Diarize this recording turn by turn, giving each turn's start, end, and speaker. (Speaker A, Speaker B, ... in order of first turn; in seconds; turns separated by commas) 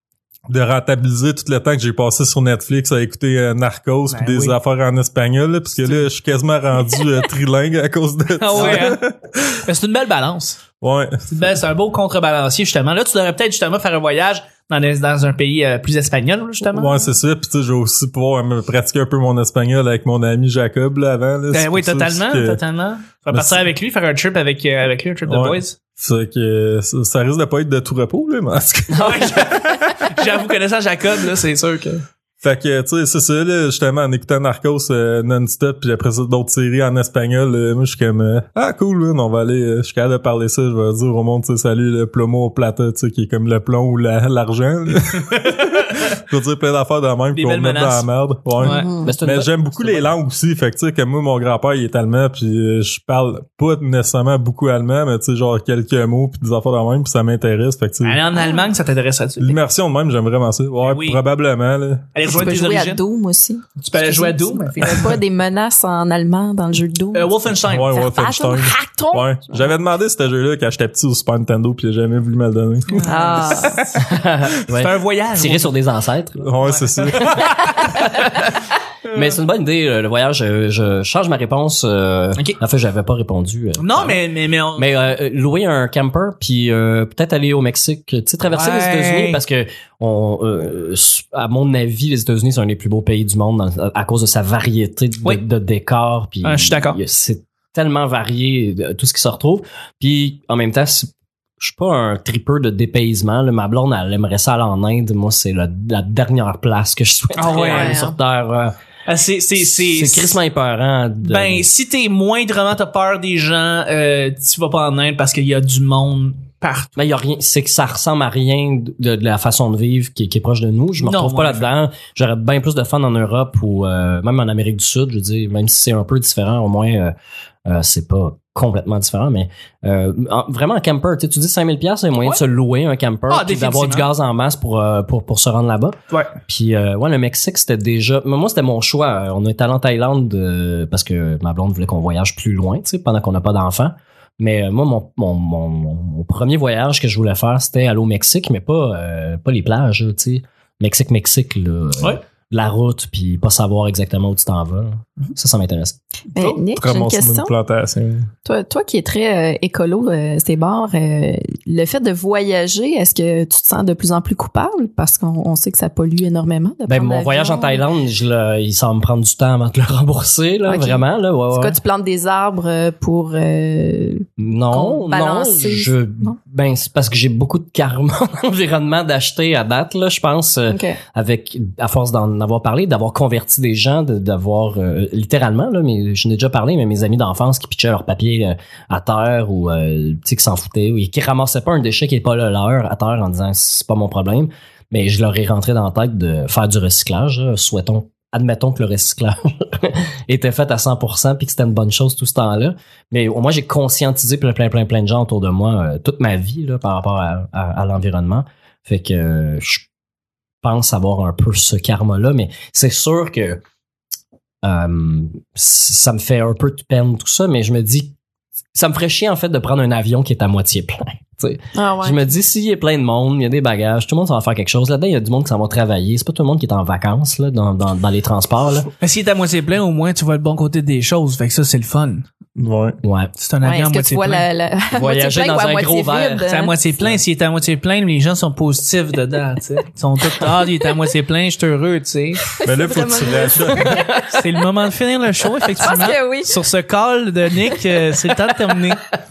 Speaker A: 0.5-9.6, Speaker B: 4.1-4.5, Speaker B: 5.8-6.1, Speaker B: 8.4-9.0, Speaker B: 9.6-10.6, Speaker A: 10.8-11.5, Speaker B: 11.3-17.1, Speaker A: 16.7-22.6, Speaker B: 21.5-25.8, Speaker A: 23.3-23.6, Speaker A: 25.3-30.0, Speaker B: 28.9-32.0, Speaker A: 32.4-58.2, Speaker B: 47.3-48.1, Speaker B: 48.6-48.9, Speaker C: 48.6-49.1, Speaker D: 49.0-50.1, Speaker B: 58.0-59.6, Speaker C: 58.3-58.7, Speaker A: 59.4-62.1, Speaker B: 60.8-61.2, Speaker B: 62.1-63.0, Speaker C: 62.2-67.3, Speaker B: 63.8-65.2, Speaker B: 67.1-68.0, Speaker A: 67.6-73.3, Speaker C: 67.9-69.7, Speaker B: 72.9-74.0, Speaker C: 73.0-73.9, Speaker D: 74.0-76.6, Speaker B: 74.7-75.8, Speaker A: 76.4-78.0, Speaker B: 76.6-78.5, Speaker B: 79.1-79.3, Speaker D: 79.1-84.2, Speaker B: 83.8-84.9, Speaker D: 84.8-108.8, Speaker B: 88.5-89.4, Speaker B: 96.4-97.0, Speaker B: 107.4-108.1, Speaker C: 107.6-108.2, Speaker B: 109.1-110.4, Speaker D: 109.6-111.7, Speaker B: 111.2-117.0, Speaker D: 117.0-127.1, Speaker B: 121.0-121.7, Speaker D: 127.7-156.0, Speaker B: 133.3-134.1, Speaker B: 156.3-156.6, Speaker C: 156.3-157.5, Speaker A: 156.7-158.3, Speaker C: 158.4-167.8, Speaker D: 166.9-171.8, Speaker C: 170.7-176.4, Speaker D: 174.4-209.9, Speaker C: 180.7-181.0, Speaker D: 210.6-213.6, Speaker D: 214.6-218.2, Speaker D: 218.7-228.9, Speaker C: 221.7-222.3, Speaker B: 229.0-232.3, Speaker A: 232.6-233.0, Speaker D: 233.0-233.3, Speaker B: 233.4-234.5, Speaker C: 233.6-236.7, Speaker D: 234.9-236.5, Speaker B: 236.5-242.4, Speaker C: 242.5-244.4, Speaker A: 242.7-244.1, Speaker D: 243.9-244.2, Speaker B: 244.3-249.0, Speaker C: 245.8-246.6